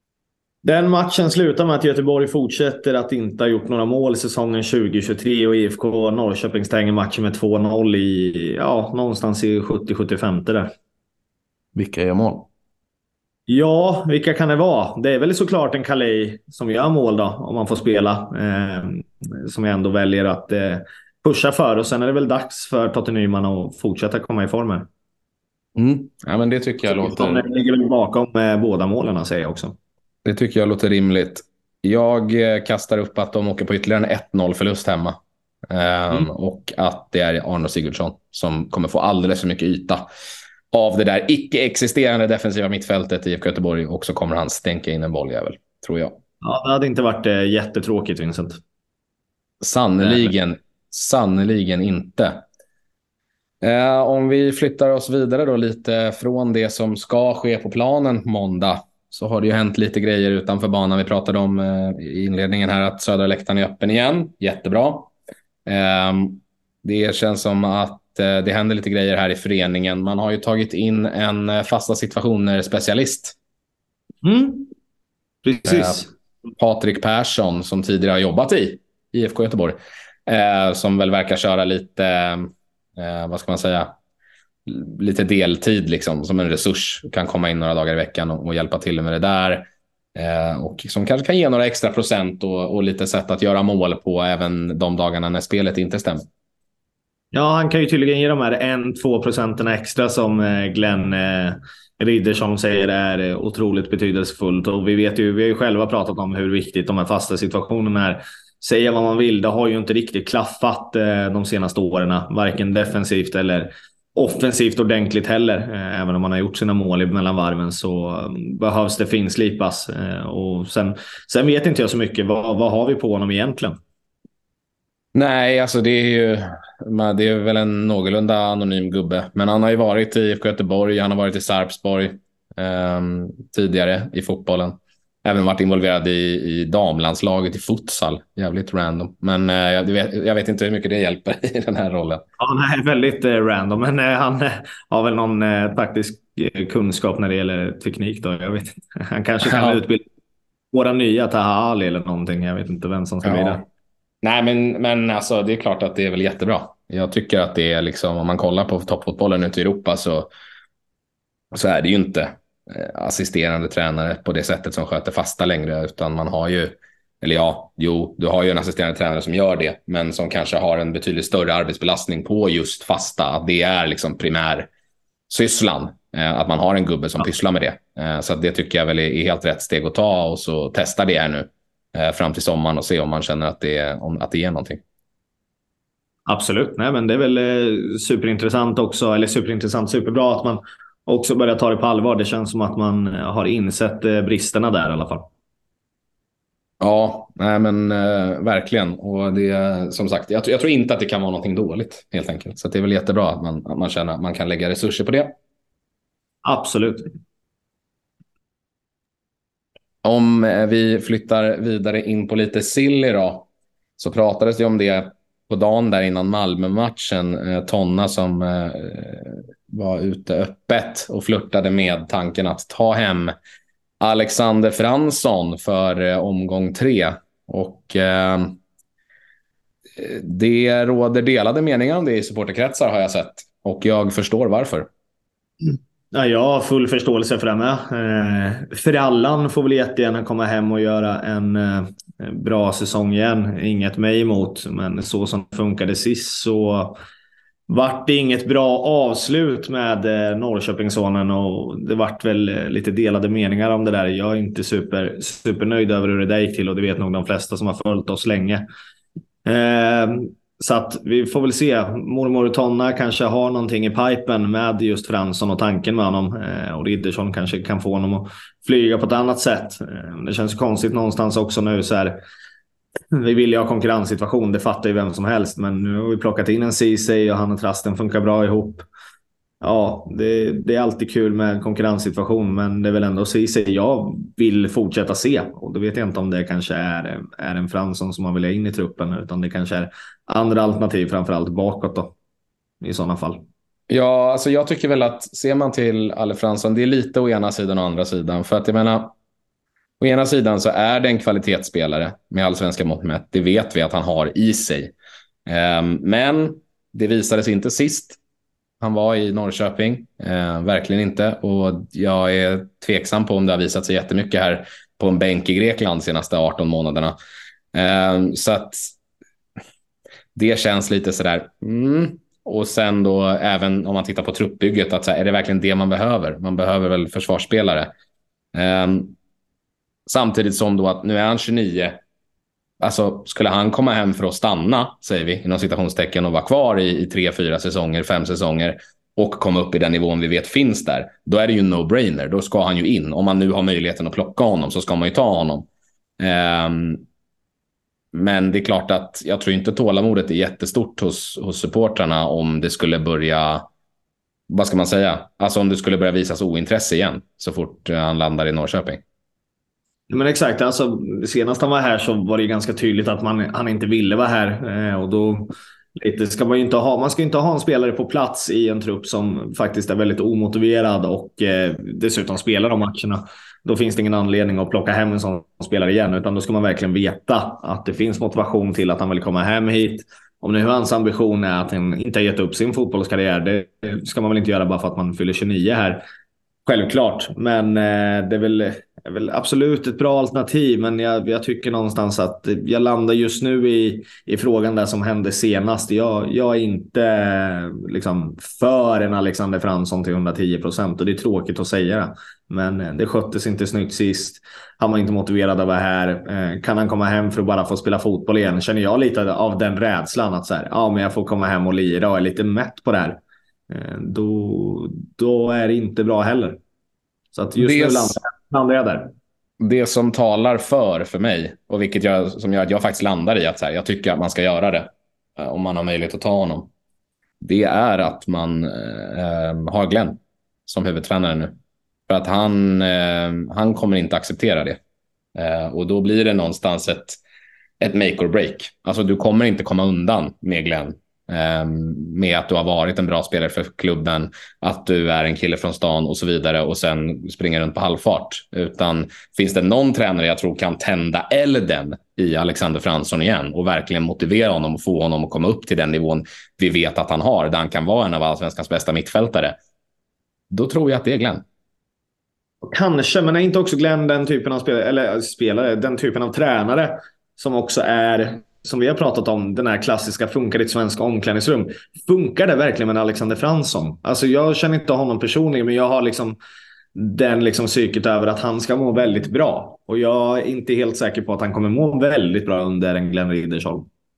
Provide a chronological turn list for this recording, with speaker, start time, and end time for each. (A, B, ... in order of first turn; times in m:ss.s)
0:00.6-0:10.7 A
0:11.8-0:12.5 B
0:13.5-0:24.9 A
0:25.8-0:27.4 B
0:26.9-0:29.8 A
0:30.2-0:35.2 B
0:35.7-0:40.0 B
0:40.7-0:46.2 B
0:46.4-0:48.6 A
0:49.6-0:52.4 B
0:50.0-0:50.3 A
0:53.6-1:05.1 B
1:05.7-1:13.4 B
1:14.2-1:14.7 A
1:15.4-1:16.1 A
1:15.7-1:16.0 B
1:16.6-1:23.9 B
1:24.7-1:36.2 B
1:37.3-2:03.8 A
2:05.2-2:22.2 B
2:22.4-2:30.0 A
2:29.4-2:29.8 B
2:30.7-2:33.6 A
2:33.2-2:33.6 B
2:34.2-2:40.3 B
2:41.5-2:54.7 B
2:55.3-3:04.8 B
3:06.3-3:15.2 A
3:16.8-3:25.4 B
3:26.4-3:27.1 A
3:30.0-3:43.4 B
3:44.0-3:48.6 B
3:50.0-3:54.9 B
3:55.6-4:07.0 A
4:07.7-4:18.6 A
4:19.4-4:32.2 A
4:33.1-4:38.9 A
4:39.6-4:52.1 A
4:52.8-4:53.4 A
4:53.9-4:59.1 B
5:00.0-5:04.9 B
5:05.5-5:08.2 B
5:08.8-5:17.2 B
5:17.7-5:19.0 B
5:20.4-5:27.9 B
5:28.5-5:29.2 B
5:30.1-5:32.0 B
5:32.8-5:45.7 B
5:46.2-5:47.0 B
5:48.1-5:53.7 B
5:54.5-5:59.0 B
6:00.1-6:26.0 A
6:26.7-6:56.6 A
6:57.3-6:59.1 A
6:57.6-6:58.2 B
6:59.6-7:06.7 B
7:07.4-7:11.6 B
7:12.1-7:14.8 B
7:15.4-7:17.2 B
7:17.8-7:39.6 B
7:40.5-7:41.4 B
7:42.7-7:56.4 A
7:57.0-8:03.9 A